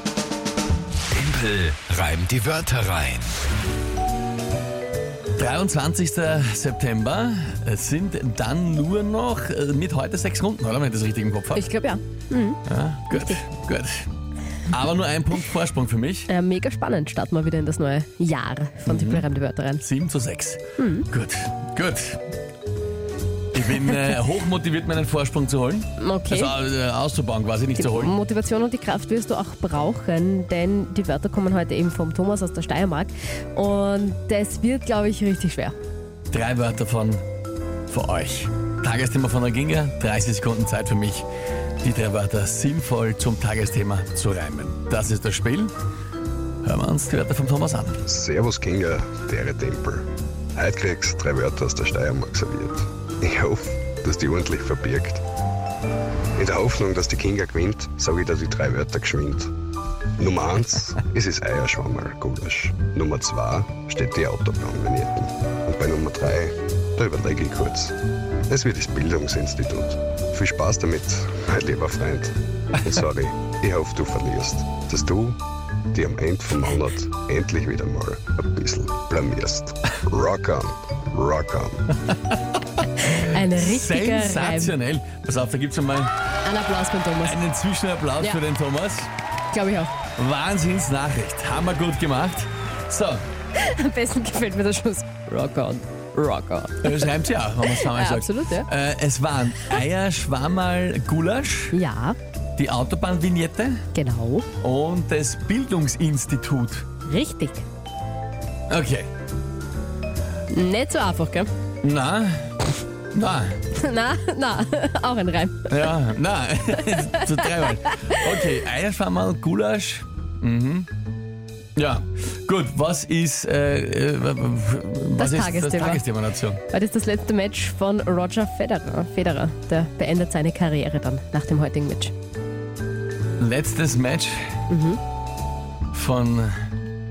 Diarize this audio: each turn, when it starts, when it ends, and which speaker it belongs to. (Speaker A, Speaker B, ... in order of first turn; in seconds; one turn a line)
Speaker A: 1.2-3.3
Speaker B: 5.4-11.7
Speaker C: 11.5-13.4
Speaker B: 12.7-14.1
Speaker B: 14.7-16.3
Speaker C: 16.3-19.8
Speaker B: 18.9-19.3
Speaker B: 19.8-22.2
Speaker C: 20.8-21.1
Speaker B: 23.5-28.1
Speaker C: 23.7-24.2
Speaker C: 26.0-26.6
Speaker C: 27.8-35.8
Speaker B: 36.3-37.2
Speaker B: 37.9-41.3
Speaker B: 41.8-45.7
Speaker B: 46.6-48.0
Speaker D: 48.0-55.2
Speaker D: 56.4-59.5
Speaker D: 60.2-75.4
Speaker D: 75.9-82.0
Speaker C: 83.0-84.8
Speaker B: 83.0-86.1
Speaker C: 86.5-87.4
Speaker B: 87.2-89.1
Speaker C: 89.5-90.0
Speaker B: 90.2-93.2
Speaker C: 93.5-98.7
Speaker B: 96.8-101.8
Speaker C: 101.7-102.2
Speaker B: 102.6-103.8
Speaker C: 103.9-104.5
Speaker B: 104.6-106.9
Speaker C: 107.1-107.7
Speaker B: 108.7-109.1
Speaker C: 110.5-111.5
Speaker B: 111.8-112.5
Speaker B: 113.1-113.6
Speaker C: 113.7-115.9
Speaker B: 115.7-120.9
Speaker C: 116.9-118.4
Speaker B: 121.8-126.6
Speaker C: 125.2-126.1
Speaker C: 126.7-132.1
Speaker B: 133.4-134.5
Speaker C: 134.7-135.0
Speaker B: 135.9-136.5